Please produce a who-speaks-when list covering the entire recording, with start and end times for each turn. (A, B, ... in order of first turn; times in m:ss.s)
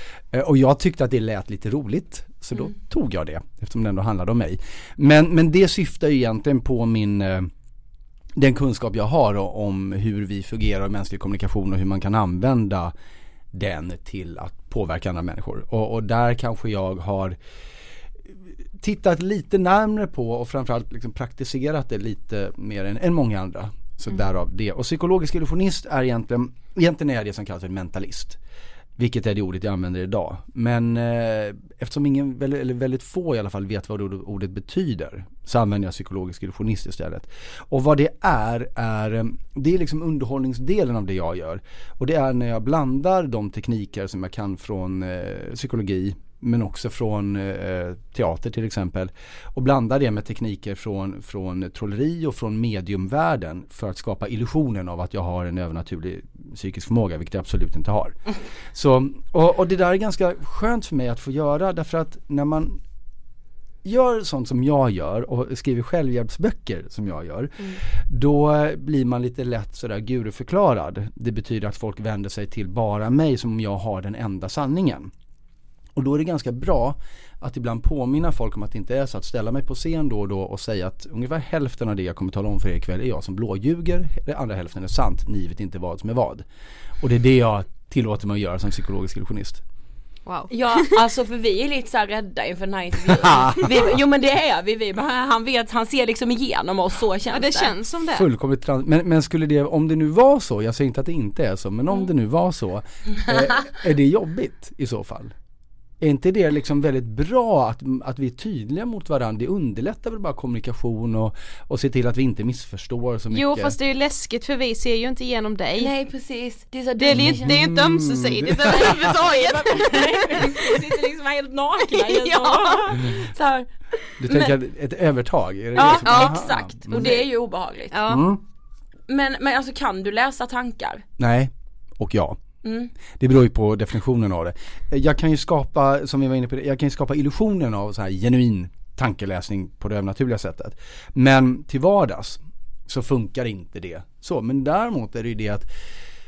0:00.3-0:07.5 A
0:08.4-0:12.9 A
0:13.5-0:17.4 A
0:18.8-0:28.4 A
0:29.0-0:58.2 A
0:58.7-1:02.8 A
1:03.8-1:15.1 A
1:16.0-1:26.5 A
1:27.0-1:29.6 A
1:30.3-1:30.9 B
1:30.5-1:37.7 C
1:33.2-1:33.9 A
1:37.3-1:38.3 B
1:38.1-1:45.4 A
1:46.0-1:53.8 A
1:53.3-1:55.9 B
1:55.8-1:57.6 C
1:57.0-2:00.7 B
1:57.1-1:59.2 A
1:58.7-2:03.7 C
2:02.0-2:02.9 B
2:03.0-2:03.3 A
2:04.2-2:07.2 A
2:04.2-2:04.5 C
2:05.8-2:07.9 C
2:05.8-2:06.4 B
2:06.9-2:07.2 B
2:07.9-2:08.2 B
2:08.1-2:08.4 A
2:09.1-2:11.0 C
2:11.2-2:12.4 A
2:12.6-2:12.9 C
2:13.2-2:25.7 A